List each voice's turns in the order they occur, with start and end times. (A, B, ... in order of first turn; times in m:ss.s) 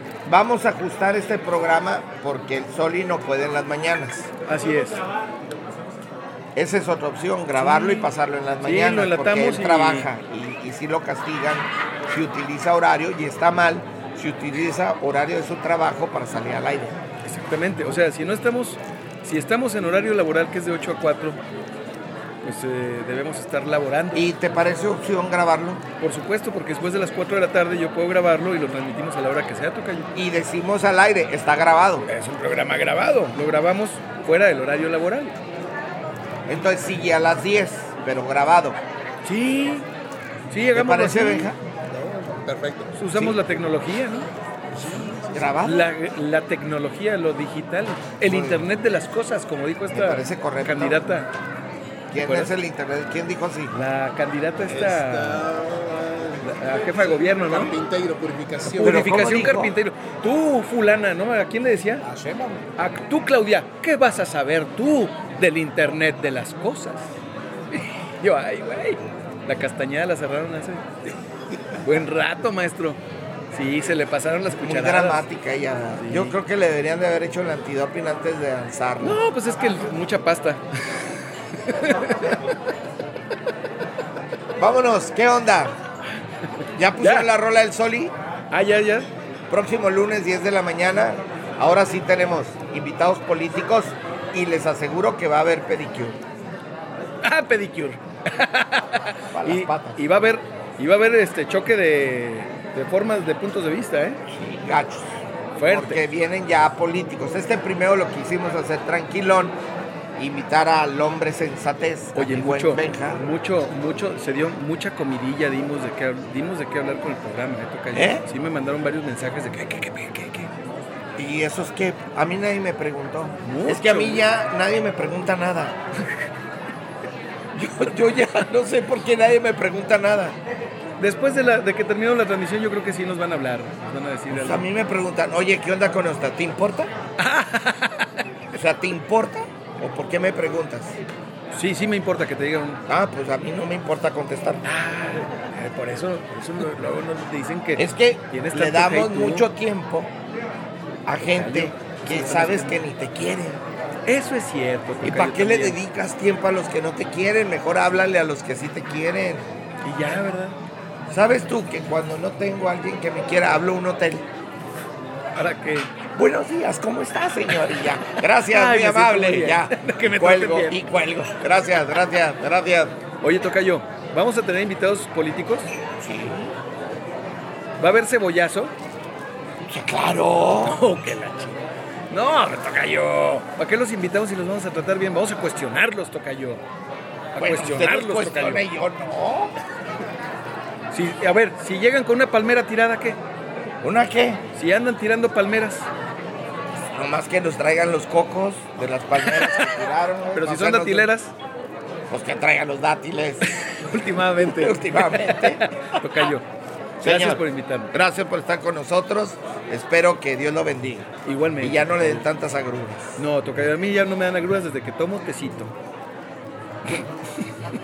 0:00.3-0:04.3 A
0:04.5-0:05.0 B
0:06.6-0:17.0 A
0:07.6-0:08.1 B
0:08.6-0:10.1 B
0:17.2-0:21.4 B
0:22.4-0:24.3 B
0:24.1-0:25.8 A
0:26.0-0:30.1 B
0:30.2-0:32.1 A
0:32.1-0:35.4 B
0:36.5-0:38.8 A
0:39.2-0:39.9 B
0:40.5-0:41.5 B
0:40.7-0:41.6 A
0:41.9-0:43.0 C
0:43.0-0:44.3 B
0:43.1-0:43.4 A
0:44.7-0:45.6 C
0:45.3-0:45.9 A
0:45.6-0:51.3 B
0:48.3-0:48.6 A
0:49.9-0:51.0 A
0:52.1-0:53.7 A
0:52.2-0:52.6 B
0:53.7-0:55.4 B
0:54.7-0:59.1 C
0:56.4-0:57.7 B
0:58.8-0:59.8 A
0:58.8-1:02.0 B
1:02.0-1:02.7 C
1:02.8-1:07.1 B
1:07.7-1:11.0 B
1:11.8-1:13.0 B
1:13.5-1:15.3 B
1:14.6-1:19.2 A
1:16.0-1:16.4 B
1:19.0-1:21.0 B
1:21.5-1:22.4 B
1:24.6-1:25.8 A
1:26.8-1:28.1 A
1:27.0-1:27.3 B
1:28.5-1:29.1 B
1:29.5-1:36.2 A
1:37.2-1:44.2 B
1:39.3-1:40.0 A
1:44.3-1:49.6 A
1:45.6-1:46.0 B
1:50.2-1:53.2 A
1:52.2-2:00.5 B
1:57.9-1:58.2 A
2:01.2-2:05.8 A
2:03.4-2:04.3 B
2:07.5-2:10.4 A
2:11.0-2:14.7 B
2:14.3-2:16.9 A
2:17.2-2:18.1 B
2:18.5-2:21.0 A
2:21.5-2:22.8 B
2:22.9-2:24.6 A
2:24.6-2:29.5 B
2:27.8-2:30.1 A
2:31.1-2:33.6 A
2:31.3-2:32.8 B
2:34.1-2:35.8 B
2:35.0-2:39.4 A
2:39.8-2:40.6 B
2:41.1-2:44.3 A
2:45.4-2:45.9 B
2:46.2-2:53.0 A
2:48.5-2:50.8 B
2:53.2-2:55.7 B
2:56.0-2:56.6 A
2:57.8-2:58.7 B
2:59.6-3:00.8 A
3:00.6-3:06.6 B
3:07.4-3:08.6 B
3:07.4-3:09.6 A
3:10.9-3:13.2 B
3:13.8-3:14.4 A
3:14.5-3:15.9 B
3:16.8-3:21.1 A
3:19.3-3:19.6 B
3:20.4-3:21.3 B
3:22.1-3:25.6 A
3:23.4-3:26.4 B
3:27.0-3:33.2 A
3:27.0-3:27.9 B
3:31.2-3:32.3 B
3:33.2-3:35.7 B